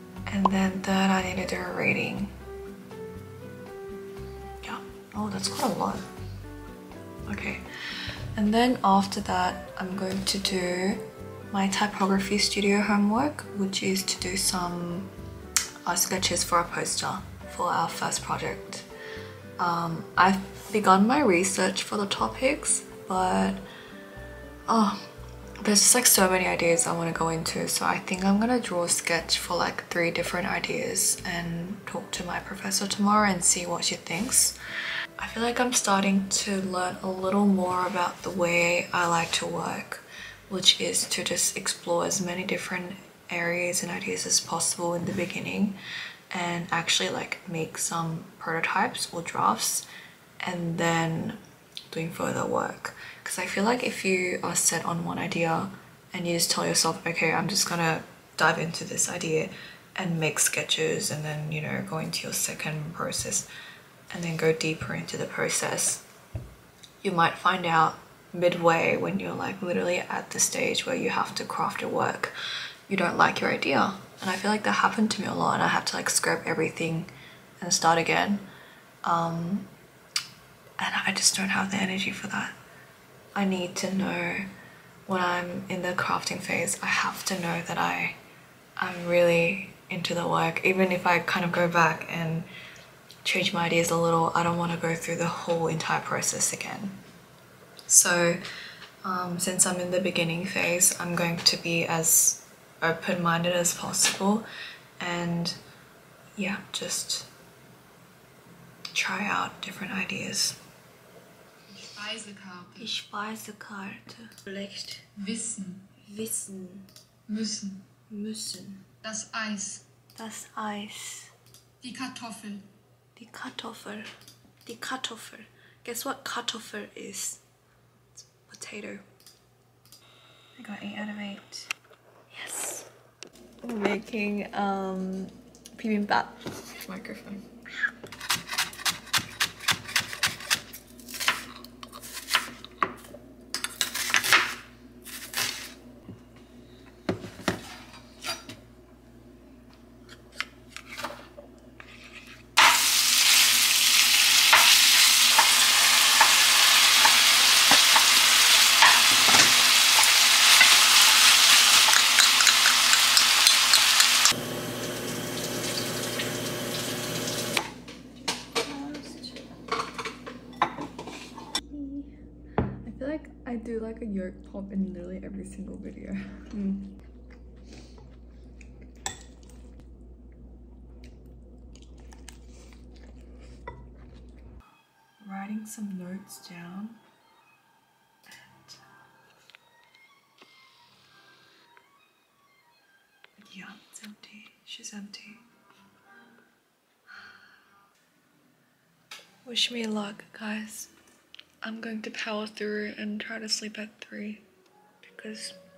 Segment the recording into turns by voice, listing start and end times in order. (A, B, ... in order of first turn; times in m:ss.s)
0:00.3-0:02.3 A
0:04.6-0:06.1 A
0:07.3-0:07.6 A
0:08.4-0:15.1 A
0:15.8-0:18.9 A
0:19.6-0:23.6 A
0:24.7-0:25.0 A
0:25.6-0:34.6 A
0:35.2-0:45.8 A
0:46.3-0:49.9 A
0:50.4-0:51.4 A
0:51.9-1:03.5 A
1:04.1-1:06.0 A
1:07.0-1:12.3 A
1:12.9-1:18.4 A
1:19.0-1:19.7 A
1:20.8-1:22.6 A
1:23.4-1:24.5 A
1:25.1-1:28.2 A
1:28.8-1:32.5 A
1:33.2-1:37.0 A
1:37.9-1:38.4 A
1:39.0-1:44.5 A
1:45.0-1:45.6 A
1:46.4-1:47.3 A
1:48.9-1:50.6 A
1:51.8-1:52.8 B
1:52.8-1:55.0 A
1:55.2-1:55.8 B
1:56.0-1:56.8 A
1:57.3-1:57.8 B
1:58.1-1:58.9 A
1:59.0-1:59.8 B
2:00.2-2:01.3 A
2:01.8-2:02.6 B
2:03.2-2:04.1 A
2:04.6-2:07.4 A
2:08.1-2:09.0 A
2:10.6-2:11.7 A
2:12.3-2:12.9 A
2:13.6-2:17.5 A
2:48.6-2:49.4 A
2:51.7-2:52.1 A
2:52.8-2:56.8 A
3:05.2-3:07.0 A
3:13.4-3:15.4 A
3:19.4-3:20.9 A
3:21.6-3:24.4 A
3:25.0-3:25.6 A